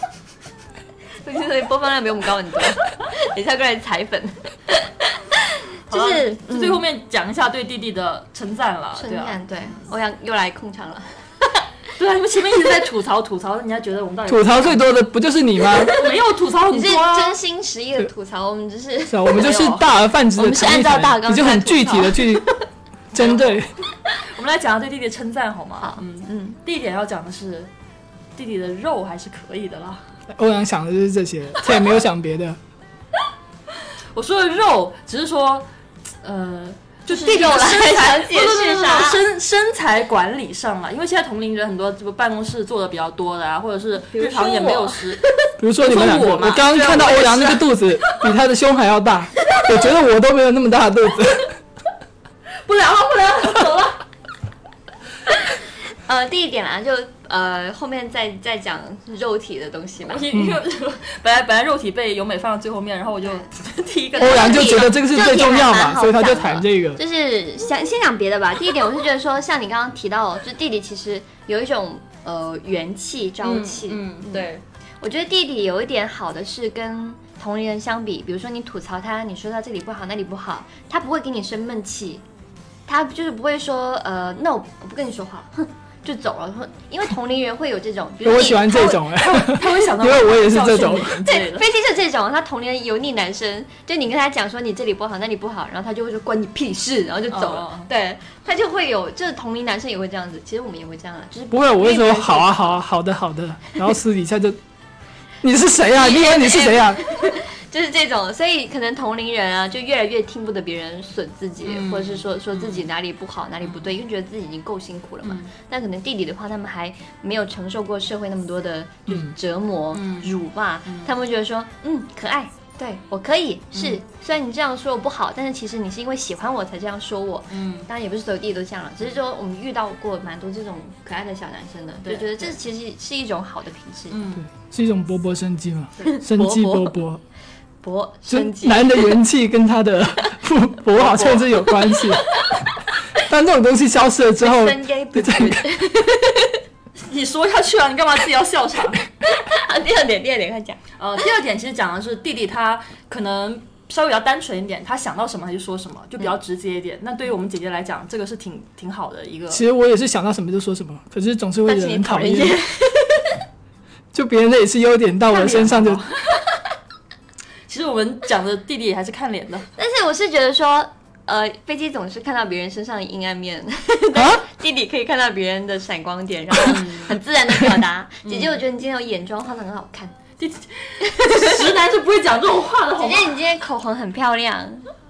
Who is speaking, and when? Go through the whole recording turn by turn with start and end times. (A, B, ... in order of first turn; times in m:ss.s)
0:01.2-0:06.8 A
0:05.9-0:09.8 B
0:09.0-0:11.6 A
0:12.0-0:14.8 B
0:14.2-0:16.0 C
0:15.9-0:17.4 B
0:16.7-0:19.8 A
0:19.1-0:22.5 C
0:19.4-0:19.8 B
0:20.3-0:22.6 A
0:23.1-0:23.6 B
0:23.1-0:23.7 C
0:24.2-0:27.7 B
0:25.8-0:26.6 A
0:28.4-0:30.0 B
0:30.3-0:32.6 C
0:34.1-0:35.7 B
0:36.2-0:45.2 B
0:37.1-0:39.2 A
0:44.1-0:45.2 A
0:45.6-0:51.5 C
0:45.8-0:48.3 B
0:52.6-0:54.0 B
0:56.0-1:00.2 A
1:00.0-1:04.9 B
1:00.3-1:00.6 C
1:04.2-1:14.5 A
1:04.2-1:07.0 C
1:13.4-1:14.6 B
1:15.0-1:22.2 A
1:22.9-1:29.0 A
1:28.2-1:31.2 C
1:29.1-1:31.6 B
1:31.2-1:42.8 A
1:37.3-1:37.9 B
1:41.5-1:44.6 C
1:45.4-1:47.0 C
1:46.0-2:14.2 A
1:51.6-1:52.9 B
1:53.6-1:53.9 B
1:55.2-1:55.5 B
1:59.9-2:00.3 B
2:00.9-2:01.1 B
2:03.7-2:04.0 B
2:07.5-2:07.9 B
2:12.0-2:12.6 B
2:14.1-2:14.4 B
2:14.4-2:17.2 C
2:16.0-2:17.0 A
2:17.8-2:19.2 A
2:18.3-2:22.3 C
2:21.0-2:22.5 A
2:23.2-2:25.8 C
2:24.4-2:26.6 A
2:27.0-2:29.0 B
2:29.3-2:30.8 A
2:31.0-2:39.6 B
2:39.5-2:42.6 C
2:41.6-2:43.3 A
2:44.1-2:46.0 C
2:45.3-2:46.3 B
2:47.7-2:49.7 B
2:49.8-3:00.2 A
2:54.1-2:54.4 C
2:56.6-2:57.2 B
2:58.2-2:58.6 B
3:00.4-3:03.4 B
3:01.0-3:01.6 A
3:03.0-3:04.9 A